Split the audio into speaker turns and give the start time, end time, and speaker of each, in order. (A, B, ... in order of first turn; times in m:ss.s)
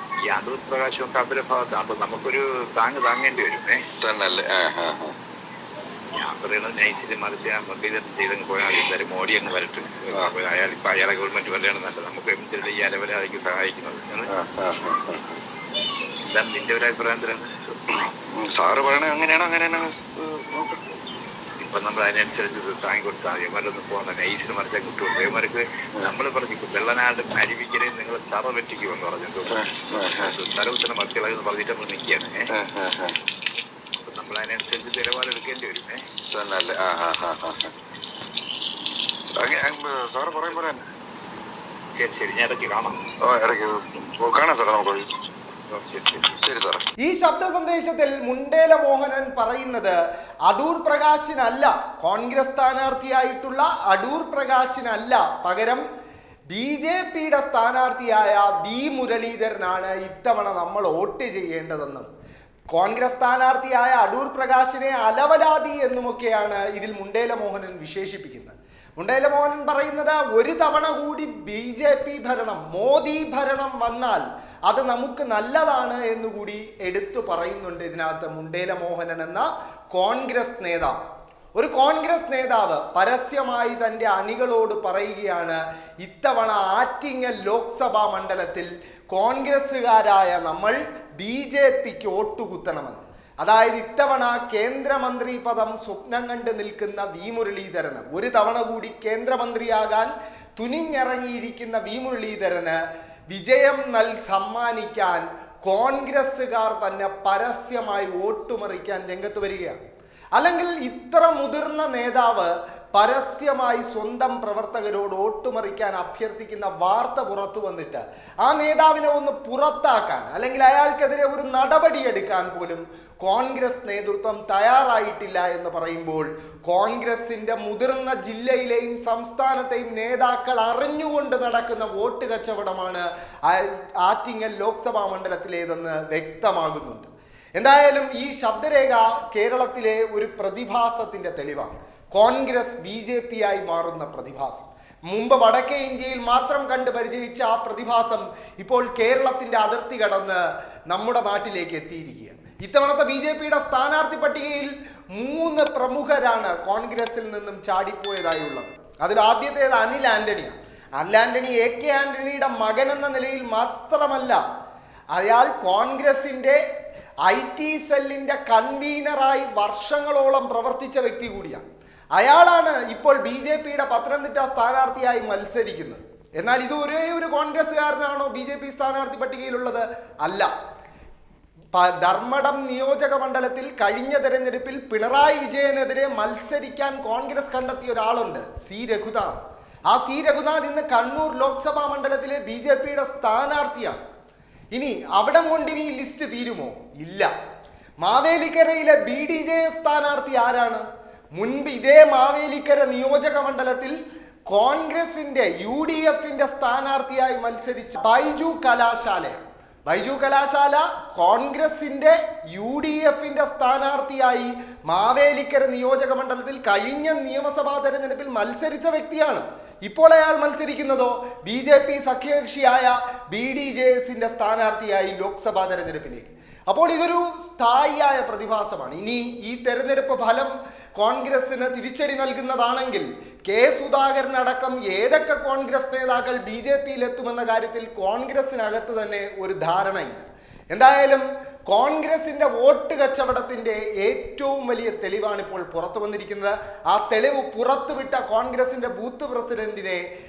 0:00.2-0:03.8 A
0:04.0-0:05.2 B
0:06.1-0:14.3 A
0:14.3-0:15.4 B
0:16.2-0:17.4 A
0:18.3-0:20.8 B
0:21.6-0:32.5 A
0:29.5-0:30.3 B
0:32.5-0:33.2 B
0:34.0-0:36.0 A
0:36.3-0:37.7 B
0:39.4-0:40.8 B
0:42.0-0:43.0 A
0:43.2-0:45.1 B
0:45.7-0:46.3 A
0:46.4-0:46.8 B
0:47.0-0:50.0 C
0:50.5-0:55.8 C
0:56.5-1:02.1 C
1:02.7-1:21.0 C
1:21.5-1:42.8 C
1:43.3-1:49.8 C
1:50.4-2:44.4 C
2:45.1-2:46.6 C
2:47.3-2:51.6 C
2:52.2-3:00.5 C
3:01.7-3:14.0 C
3:14.7-3:17.3 C
3:18.0-3:20.8 C
3:21.4-3:24.0 C
3:24.5-4:10.0 C